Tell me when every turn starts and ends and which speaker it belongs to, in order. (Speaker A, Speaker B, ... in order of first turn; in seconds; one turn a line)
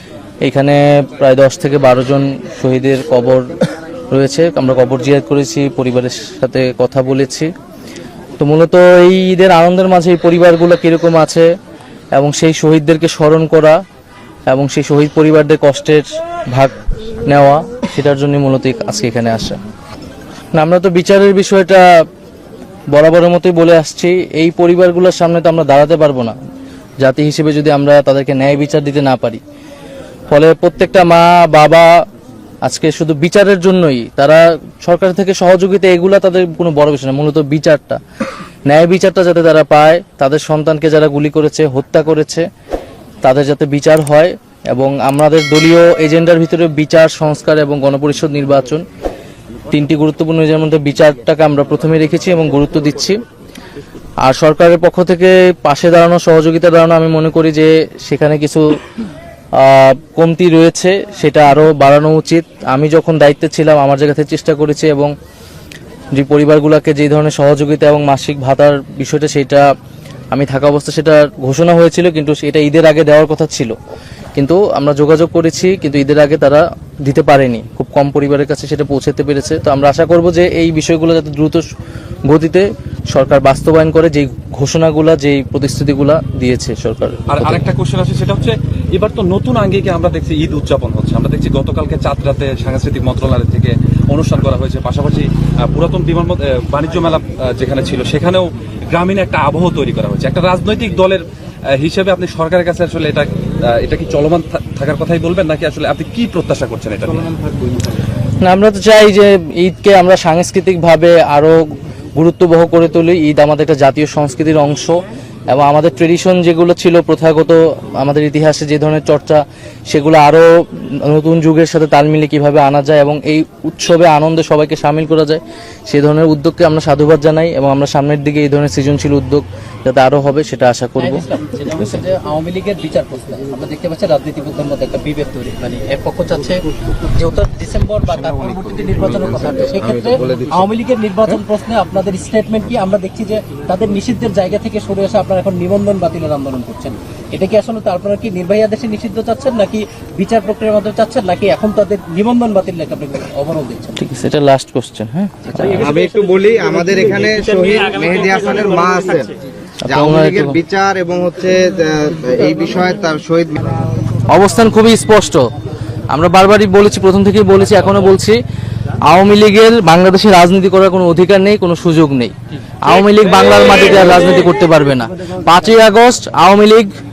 Speaker A: 0.4-3.5
Speaker A: 4.1-7.5
Speaker A: 8.4-11.5
Speaker A: 12.1-13.8
Speaker A: 14.5-16.7
Speaker A: 17.3-19.6
Speaker A: 20.5-21.8
Speaker A: 22.9-26.3
Speaker A: 27.0-29.4
Speaker A: 30.3-31.9
Speaker A: 32.6-38.0
Speaker A: 38.7-42.5
Speaker A: 43.2-48.8
Speaker A: 49.7-53.2
Speaker A: 54.2-58.6
Speaker A: 59.6-65.1
Speaker A: 66.1-69.7
Speaker A: 70.3-73.7
Speaker A: 74.4-81.7
Speaker A: 82.3-87.2
Speaker B: 87.3-107.3
Speaker A: 108.4-111.6
Speaker A: 112.2-115.0
Speaker A: 115.5-131.2
Speaker C: 131.0-136.6
Speaker C: 137.2-154.0
Speaker A: 154.0-155.8
Speaker D: 155.6-159.3
Speaker A: 159.8-160.6
Speaker D: 159.9-163.6
Speaker A: 164.3-165.4
Speaker A: 166.1-168.4
Speaker A: 169.1-176.9